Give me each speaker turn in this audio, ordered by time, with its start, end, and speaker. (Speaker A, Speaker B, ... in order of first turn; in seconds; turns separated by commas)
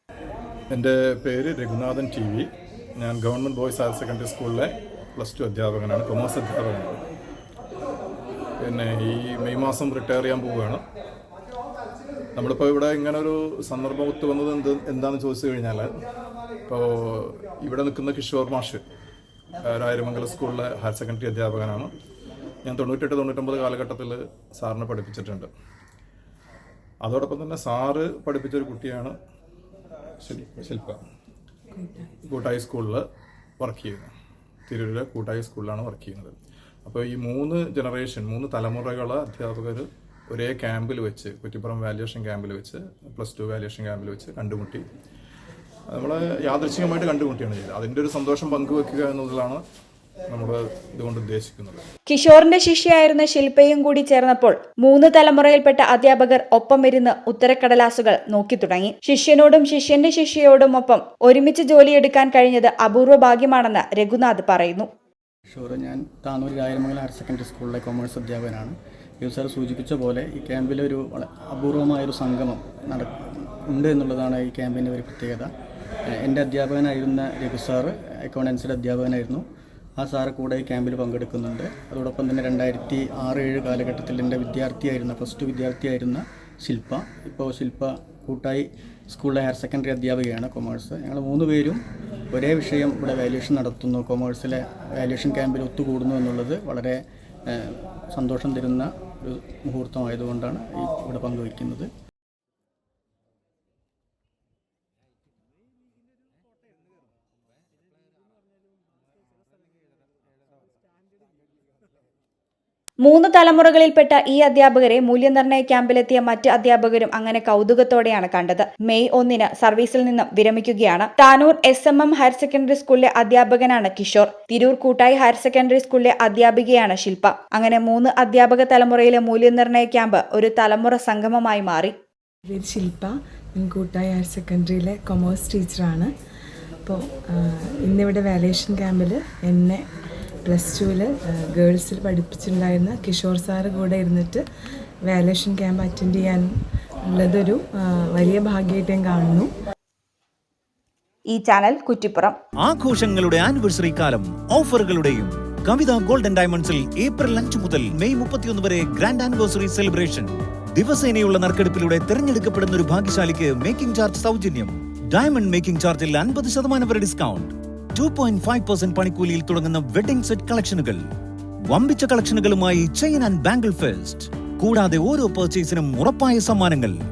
Speaker A: 0.7-7.0, Speaker A: 8.6-10.8, Speaker A: 12.3-15.9, Speaker A: 16.7-18.8, Speaker A: 19.6-21.9, Speaker A: 22.6-25.5, Speaker A: 27.0-29.1, Speaker A: 30.2-31.0, Speaker B: 31.8-32.1, Speaker A: 32.2-33.0, Speaker A: 33.6-34.1, Speaker A: 34.7-44.8, Speaker A: 45.9-49.6, Speaker A: 50.3-51.8, Speaker C: 52.1-64.9, Speaker D: 65.5-75.5, Speaker D: 76.1-79.4, Speaker D: 80.0-101.9, Speaker C: 113.0-131.9, Speaker B: 132.5-136.1, Speaker B: 136.8-139.8, Speaker B: 140.4-144.4, Speaker B: 145.1-146.5, Speaker B: 147.1-149.5, Speaker C: 151.3-152.4, Speaker E: 152.6-171.0, Speaker E: 171.7-176.9